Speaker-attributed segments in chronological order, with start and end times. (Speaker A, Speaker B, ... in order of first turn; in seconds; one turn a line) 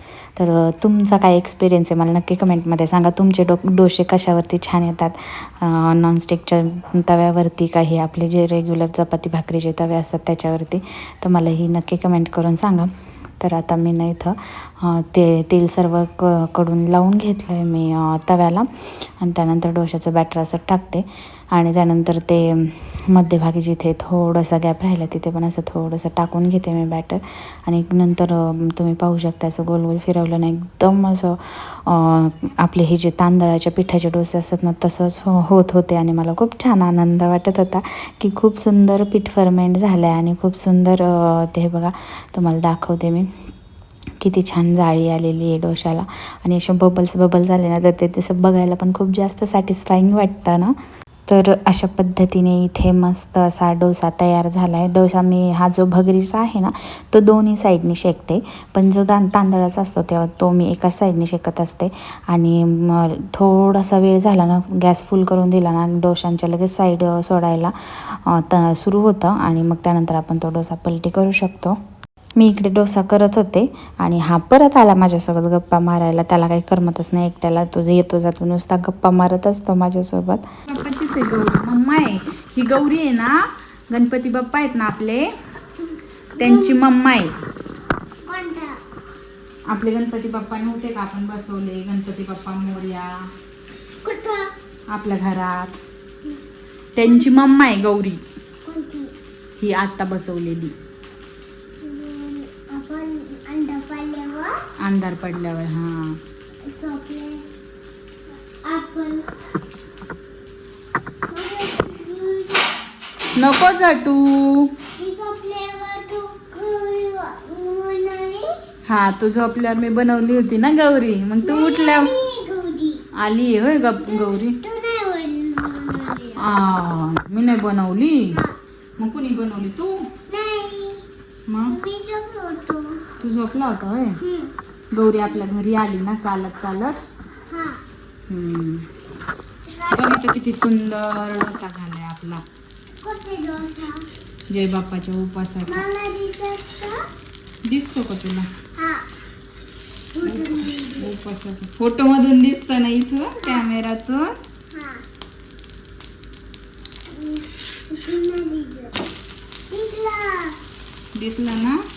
Speaker A: 0.4-12.9
Speaker A: 13.4-43.3
Speaker A: 44.2-50.7
Speaker A: 51.3-71.8
Speaker A: 72.4-80.4
Speaker B: 80.7-83.4
Speaker B: 83.9-85.3
Speaker C: 86.4-86.8
Speaker B: 86.4-87.3
Speaker C: 88.2-88.8
Speaker B: 89.7-93.3
Speaker C: 94.0-94.5
Speaker B: 94.9-95.8
Speaker B: 97.0-98.2
Speaker C: 97.0-97.5
Speaker C: 98.7-99.1
Speaker B: 99.6-100.7
Speaker C: 101.8-104.5
Speaker B: 104.8-106.2
Speaker C: 106.7-107.5
Speaker C: 108.6-109.3
Speaker C: 111.3-112.7
Speaker B: 113.3-114.7
Speaker C: 115.0-118.6
Speaker B: 118.9-122.1
Speaker C: 121.4-123.0
Speaker B: 123.2-124.6
Speaker C: 124.0-126.5
Speaker B: 126.4-128.4
Speaker C: 128.3-128.6
Speaker B: 129.0-130.1
Speaker C: 130.3-131.0
Speaker B: 131.5-131.8
Speaker C: 131.7-133.1
Speaker B: 133.2-134.2
Speaker C: 134.2-134.5
Speaker B: 134.9-137.0
Speaker C: 137.5-137.8
Speaker B: 138.3-138.9
Speaker C: 139.7-140.2
Speaker B: 139.9-142.4
Speaker C: 143.0-144.1
Speaker B: 144.5-145.9
Speaker C: 145.7-147.0
Speaker B: 147.7-148.5
Speaker C: 148.8-149.1
Speaker C: 150.2-151.1
Speaker B: 150.2-154.3
Speaker C: 153.4-153.7
Speaker C: 154.7-155.0
Speaker C: 157.1-159.0
Speaker C: 159.7-160.6
Speaker B: 161.2-161.8